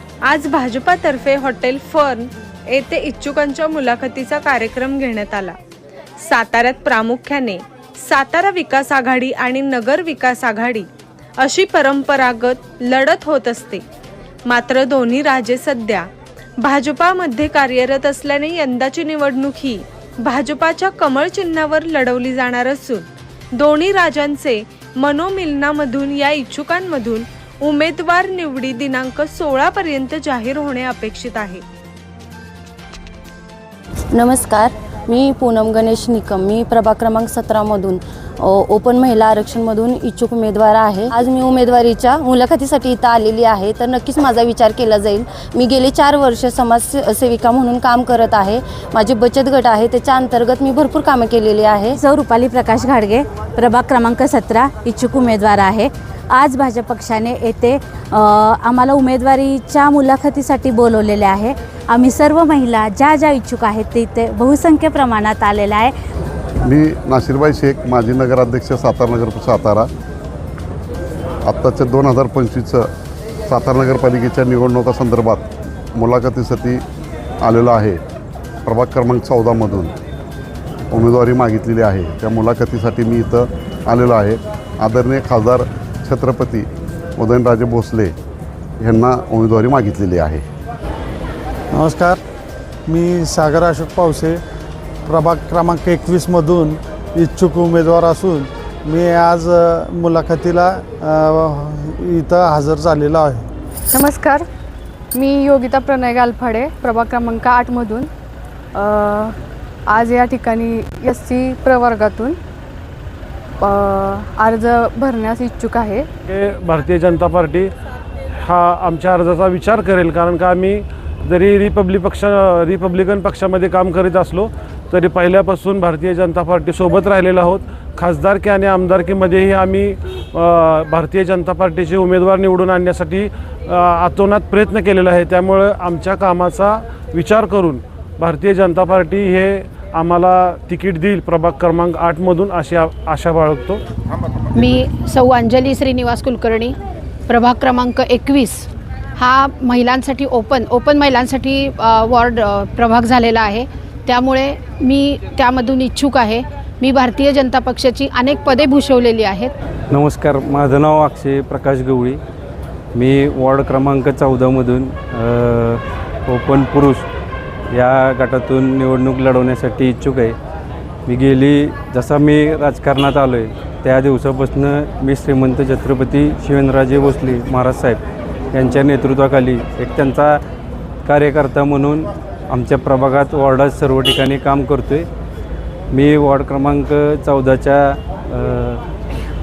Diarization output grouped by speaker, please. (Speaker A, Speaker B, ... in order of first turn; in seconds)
Speaker A: 0.3-5.5, 6.2-10.9, 11.4-13.8, 14.5-16.1, 16.6-31.6
Speaker B: 34.1-52.0
Speaker C: 51.9-65.9
Speaker D: 66.6-69.9, 71.5-72.9, 73.5-76.8, 77.4-78.0, 78.7-79.9, 80.9-88.2, 88.8-90.4
Speaker E: 91.8-92.2, 92.9-94.4, 95.1-103.4
Speaker F: 103.9-104.4, 105.1-108.1, 108.8-109.3, 109.9-112.4, 113.6-116.1
Speaker G: 116.3-117.7, 118.4-143.8
Speaker H: 144.6-146.8, 147.3-148.7, 149.2-159.5
Speaker I: 159.9-162.2, 162.9-167.1, 167.7-170.3, 171.1-178.0, 178.5-180.4, 181.1-185.1, 185.9-188.8